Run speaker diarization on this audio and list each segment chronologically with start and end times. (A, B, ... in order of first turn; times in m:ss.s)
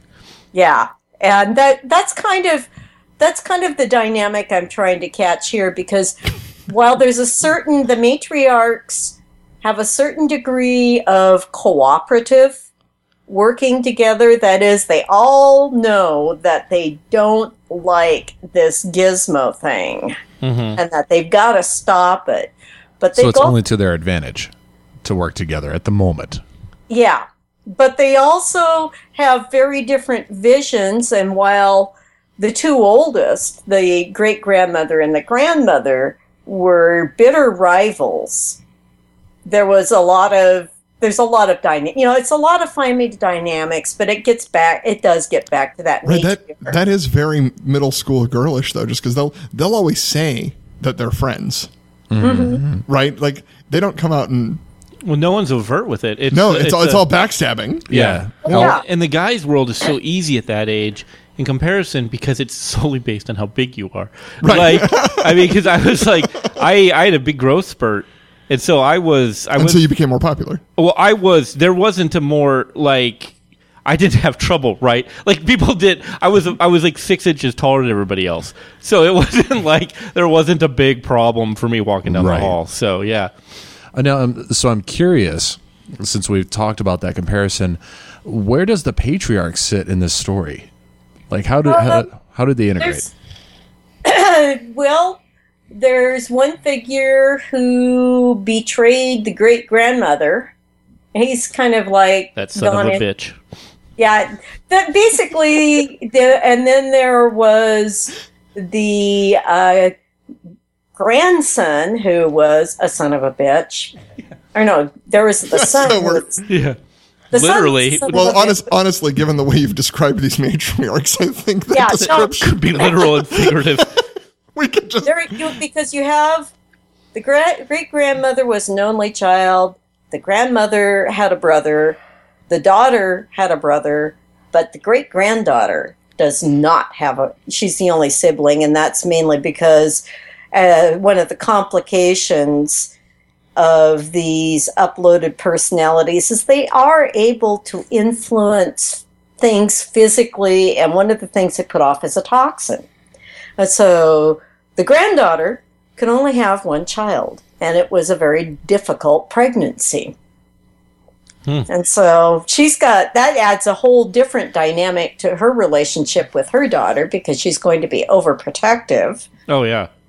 0:00.5-0:02.7 A
0:03.2-0:12.6 A
0:13.3-0:20.2 A
0:20.4-0:20.8 B
0:20.8-0:23.6 A
0:23.1-0:24.5 C
0:25.0-0:26.4 C
0:26.9-0:38.6 A
0:39.4-0:46.7 A
0:46.0-0:51.7 D
0:52.1-0:52.8 C
0:52.2-0:52.6 A
0:52.8-0:54.6 D
0:55.0-0:57.0 B
0:56.3-0:57.9 D
0:57.9-0:58.7 C
0:57.9-1:09.8 B
0:58.4-0:58.8 A
1:04.4-1:05.5 D
1:09.6-1:10.6 D
1:10.8-1:13.3 B
1:13.8-1:23.3 B
1:22.1-1:22.5 C
1:23.9-1:30.7 C
1:31.3-1:33.0 C
1:31.6-1:32.1 A
1:32.8-1:33.1 A
1:34.0-1:35.2 A
1:35.7-1:40.5 A
1:41.1-1:43.0 A
1:42.4-1:43.4 B
1:44.0-1:49.9 A
1:51.0-1:53.9 A
1:54.5-1:56.4 A
1:55.5-1:56.4 D
1:56.4-1:56.8 B
1:57.3-1:58.3 B
1:57.3-1:58.6 A
1:58.1-2:03.6 D
2:01.7-2:02.9 A
2:02.0-2:04.0 B
2:04.5-2:05.6 D
2:05.0-2:06.5 A
2:07.1-2:12.0 A
2:12.5-2:22.9 A
2:23.6-2:32.8 A
2:33.6-2:40.1 A
2:41.7-2:49.2 A
2:49.5-2:49.9 B